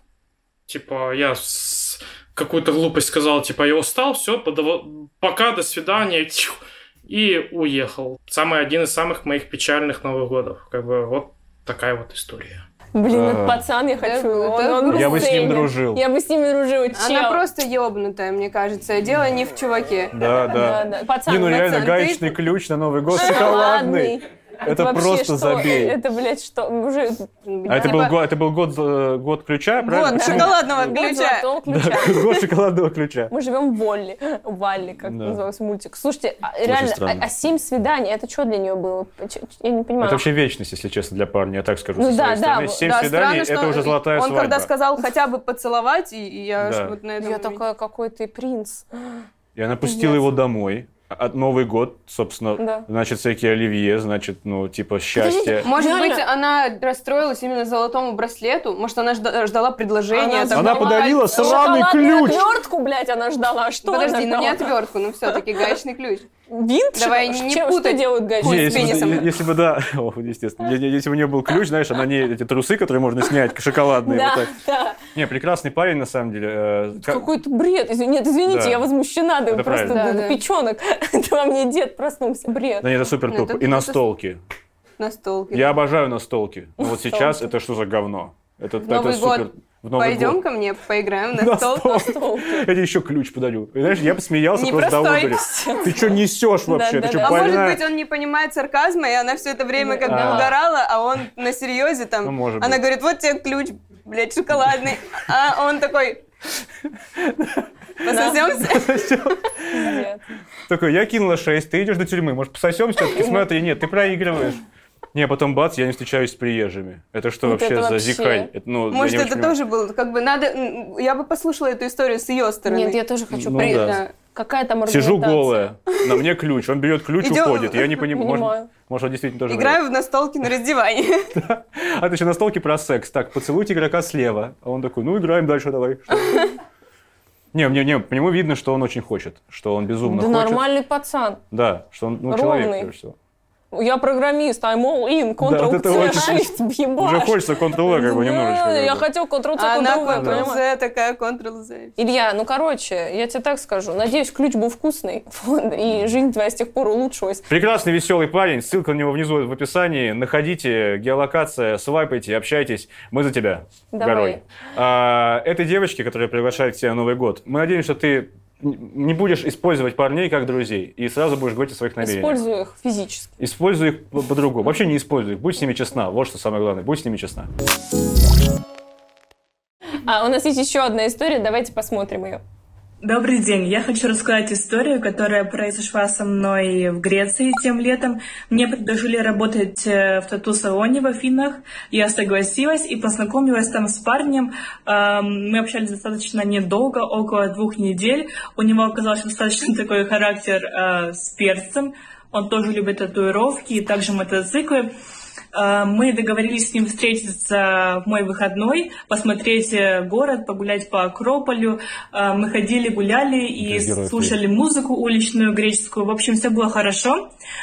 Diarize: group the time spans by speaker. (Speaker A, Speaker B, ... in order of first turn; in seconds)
Speaker A: 0.7-12.6
Speaker B: 12.9-17.4, 20.5-21.9, 23.1-28.1, 29.9-32.5, 33.3-40.2, 42.0-43.0, 47.2-49.2, 49.9-50.3, 52.6-52.9, 55.2-56.2, 60.1-64.7, 65.3-65.7, 66.5-69.3, 74.0-75.0, 77.0-82.9, 86.8-87.4, 91.9-92.7, 95.4-96.1, 96.7-97.6, 99.8-100.5, 108.1-108.7, 109.7-110.2, 113.1-113.5, 117.4-118.5, 122.7-125.6, 128.1-128.7, 140.0-141.4, 142.3-142.9, 143.7-150.6, 152.0-157.5, 163.9-164.4, 172.0-173.4, 180.0-182.4
Speaker C: 13.1-13.6, 14.9-16.0, 20.1-26.0, 27.6-30.8, 31.7-33.3, 35.0-35.4, 36.6-37.3, 40.0-44.7, 46.6-47.0, 49.5-55.7, 60.5-62.5, 68.4-74.5, 75.1-77.2, 78.5-78.8, 79.5-80.0, 82.8-84.4, 85.5-90.4, 91.4-97.9, 100.0-100.5, 102.2-102.8, 107.2-110.0, 110.7-114.6, 115.1-119.5, 123.3-124.0, 124.9-129.8, 131.3-136.4, 137.5-140.6, 141.5-143.2, 145.4-149.1, 150.0-150.6, 157.5-172.4, 173.4-177.5, 213.6-214.4
Speaker D: 14.0-15.6, 16.9-20.1, 21.4-22.4, 27.4-28.2, 29.8-31.5, 42.8-47.6, 55.6-61.6, 63.8-66.3, 66.9-69.4, 79.9-80.4, 83.2-84.0, 85.0-85.7, 88.8-92.1, 94.5-95.9, 97.2-106.2, 108.0-109.0, 118.9-123.0, 123.5-124.1, 127.2-127.9, 129.5-131.4, 149.5-151.9
Speaker E: 183.0-204.9, 205.5-217.3